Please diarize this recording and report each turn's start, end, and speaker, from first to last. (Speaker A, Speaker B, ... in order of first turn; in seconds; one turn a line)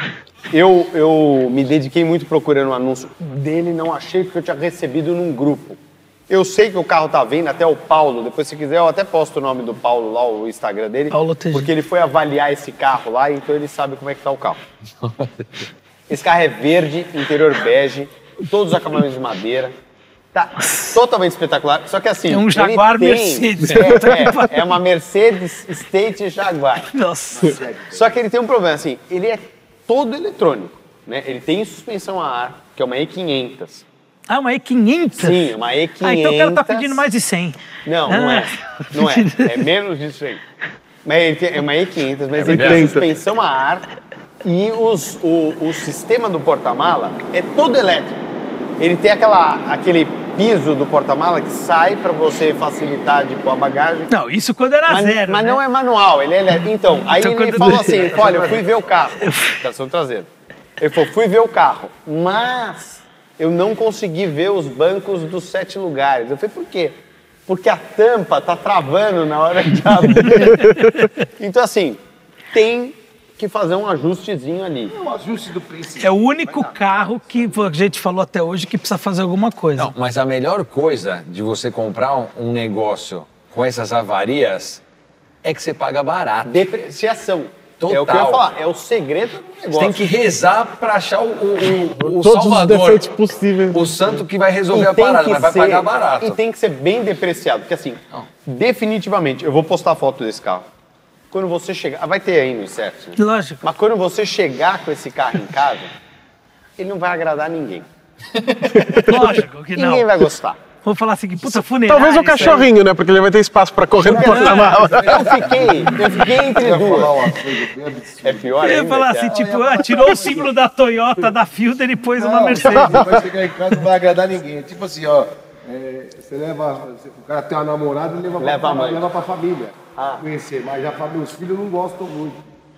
Speaker A: 0.5-14.6
Speaker B: 11.1-11.7
Speaker C: 15.0-15.5
Speaker A: 16.1-19.7
Speaker A: 20.3-26.9
Speaker B: 20.6-21.0
Speaker B: 22.3-24.8
Speaker B: 26.9-27.6
Speaker D: 27.3-28.2
Speaker A: 27.9-33.8
Speaker B: 34.3-39.7
Speaker A: 35.1-37.0
Speaker A: 37.8-40.4
Speaker A: 41.0-43.9
Speaker C: 42.3-43.1
Speaker D: 42.4-43.1
Speaker A: 44.4-48.2
Speaker A: 48.8-54.1
Speaker B: 54.1-55.6
Speaker A: 54.9-72.0
Speaker B: 57.0-58.2
Speaker D: 57.6-58.8
Speaker B: 59.2-59.6
Speaker B: 70.4-71.0
Speaker A: 72.5-74.9
Speaker D: 74.9-77.7
Speaker B: 76.0-79.9
Speaker C: 79.8-84.8
Speaker C: 85.4-86.7
Speaker A: 86.5-90.1
Speaker C: 87.8-88.5
Speaker C: 89.7-93.2
Speaker E: 92.0-93.8
Speaker C: 93.7-96.4
Speaker A: 94.7-100.7
Speaker A: 101.3-105.9
Speaker B: 103.2-103.6
Speaker A: 106.8-107.8
Speaker E: 108.8-109.1
Speaker B: 108.9-110.1
Speaker A: 109.1-110.6
Speaker B: 110.8-112.7
Speaker E: 111.5-115.5
Speaker A: 114.0-117.3
Speaker B: 114.1-114.8
Speaker D: 114.1-120.5
Speaker A: 118.2-120.5
Speaker B: 118.6-123.0
Speaker D: 122.2-132.4
Speaker A: 128.4-129.1
Speaker A: 129.9-130.2